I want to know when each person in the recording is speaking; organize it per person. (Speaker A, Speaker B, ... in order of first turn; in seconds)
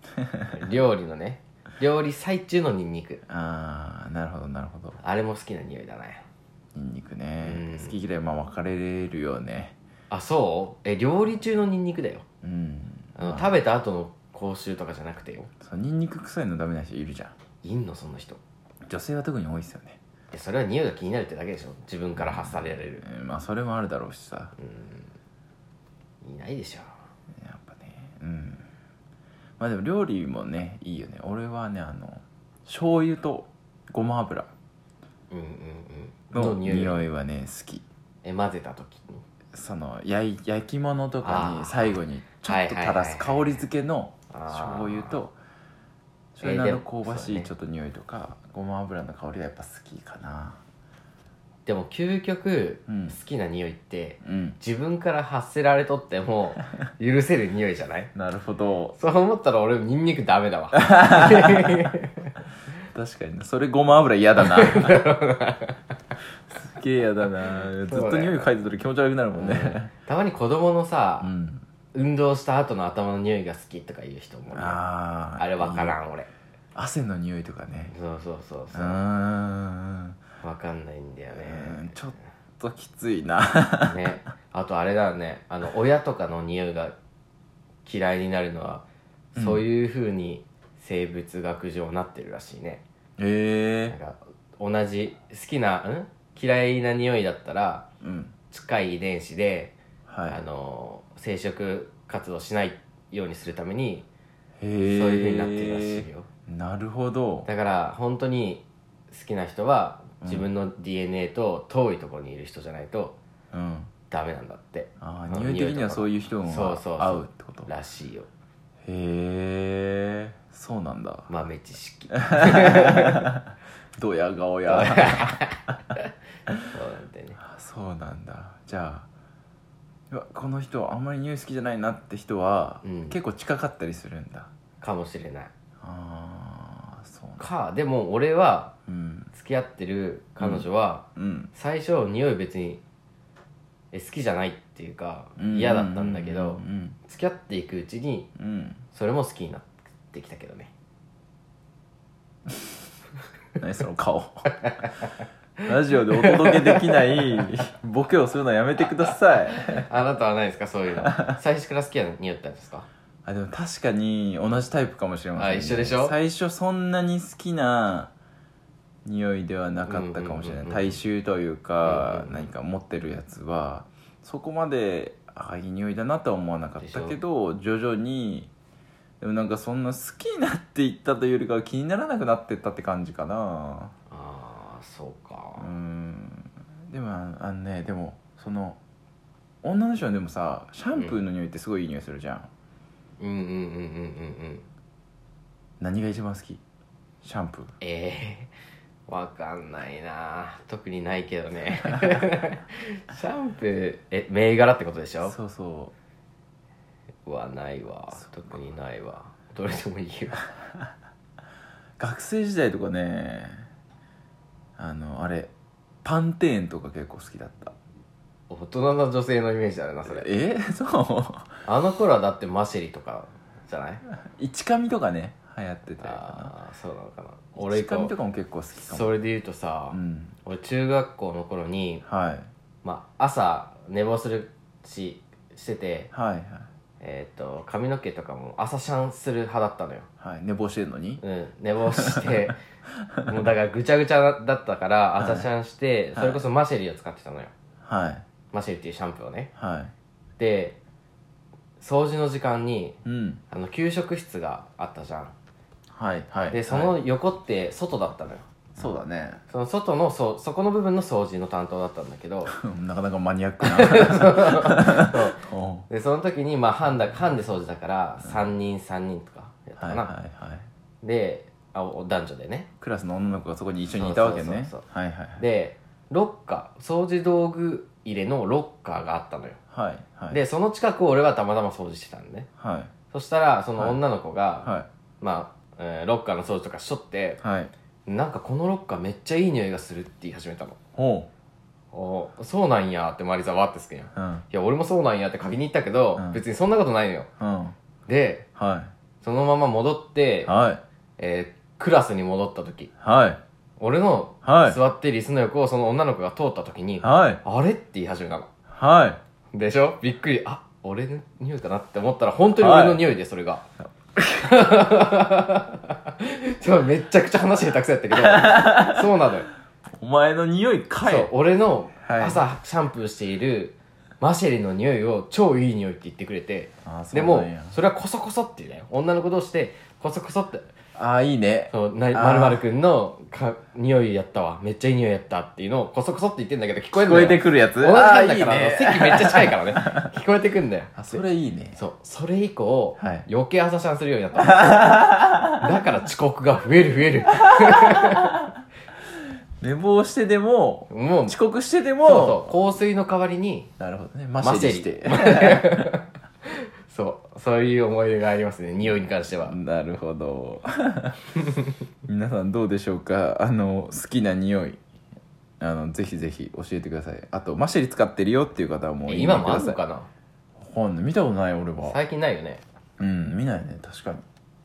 Speaker A: 0.5-3.2, 5.0-6.2, 7.4-8.0, 10.1-12.2, 13.2-15.5, 17.6-18.4, 20.3-23.0, 24.6-25.1, 26.2-26.9, 35.3-37.0, 38.2-39.2, 41.2-43.6, 44.3-45.2, 46.4-47.5, 51.7-58.1, 59.0-62.3, 64.4-65.8, 67.8-68.5, 69.3-71.3, 71.9-74.8, 75.4-76.3, 77.9-79.0, 80.4-82.0, 83.8-86.9, 87.8-92.8, 93.9-97.9, 98.5-104.1, 104.9-106.3, 107.5-113.2, 114.1-118.3, 121.3-123.3, 124.7-126.0, 126.7-127.4, 132.8-133.2, 134.8-135.5, 137.4-138.7, 139.3-142.8, 143.9-148.3, 148.9-150.7, 154.6-155.0, 155.9-157.5, 159.6-162.9, 165.4-166.2, 169.8-171.0, 171.8-172.5, 176.8-177.2, 184.1-185.7, 193.2-194.7, 197.8-198.5, 199.1-205.3, 207.2-210.5, 218.5-220.3, 221.7-224.0, 226.0-228.1, 228.8-232.1, 232.8-236.1, 237.0-240.1, 241.2-242.6, 243.3-247.5, 248.5-249.5, 250.4-250.8, 251.8-253.0, 253.5-255.3, 256.5-258.5, 259.5-262.6, 263.6-270.1, 271.0-272.7, 273.9-274.9, 275.4-279.6, 280.3-282.5, 283.1-287.4, 288.1-290.8, 291.9-297.3, 298.1-298.5, 299.2-300.5, 301.2-302.9, 303.8-308.5, 309.5-319.5, 321.0-330.7, 331.7-341.2, 341.8-348.4, 350.9-351.4, 352.0-353.7, 354.4-359.6, 369.1-370.1, 371.8-372.6
Speaker B: 3.3-5.0, 6.7-9.8, 12.4-13.6, 15.6-17.3, 18.9-20.0, 22.2-24.6, 27.4-28.7, 29.6-34.5, 36.3-37.9, 39.5-45.4, 46.4-50.6, 52.9-53.2, 54.2-54.6, 58.1-59.0, 60.9-61.9, 62.9-65.1, 66.5-69.9, 71.2-71.7, 74.5-76.0, 76.8-77.9, 78.7-80.2, 81.3-84.0, 89.3-89.7, 93.2-94.0, 98.0-98.3, 100.1-100.4, 104.6-107.5, 110.2-110.5, 113.5-113.9, 115.0-117.7, 118.8-121.3, 122.3-123.4, 123.9-125.4, 127.4-129.1, 130.1-134.5, 135.8-137.5, 138.9-139.3, 140.4-141.5, 145.4-147.0, 148.4-148.8, 153.6-154.6, 155.7-159.9, 161.0-161.4, 163.3-168.1, 169.1-178.5, 179.2-183.9, 185.6-188.8, 189.6-192.5, 195.8-196.6, 197.2-197.7, 205.2-205.9, 212.0-213.7, 214.8-215.5, 216.0-217.8, 220.1-221.6, 224.1-226.5, 227.6-229.1, 229.9-230.4, 232.1-232.5, 236.1-236.7, 240.2-241.2, 242.0-242.3, 245.2-245.5, 246.1-246.4, 247.8-248.2, 249.6-249.9, 253.1-253.4, 255.9-257.0, 258.8-259.4, 262.5-265.9, 268.2-268.5, 269.8-270.7, 272.8-275.4, 279.7-280.4, 282.6-282.9, 284.6-284.9, 287.4-287.7, 291.0-291.3, 294.1-294.4, 297.4-297.8, 298.6-298.9, 300.5-300.8, 303.0-303.4, 304.4-304.8, 307.0-307.4, 308.7-309.2, 312.6-313.1, 318.1-319.1, 320.0-321.3, 322.0-322.5, 326.8-327.8, 331.0-332.6, 336.9-340.1, 340.9-341.8, 343.0-343.3, 344.4-345.7, 347.5-348.3, 349.6-352.6, 353.8-355.9, 359.4-361.3, 362.1-364.8, 365.6-369.8, 370.6-372.0, 373.0-374.2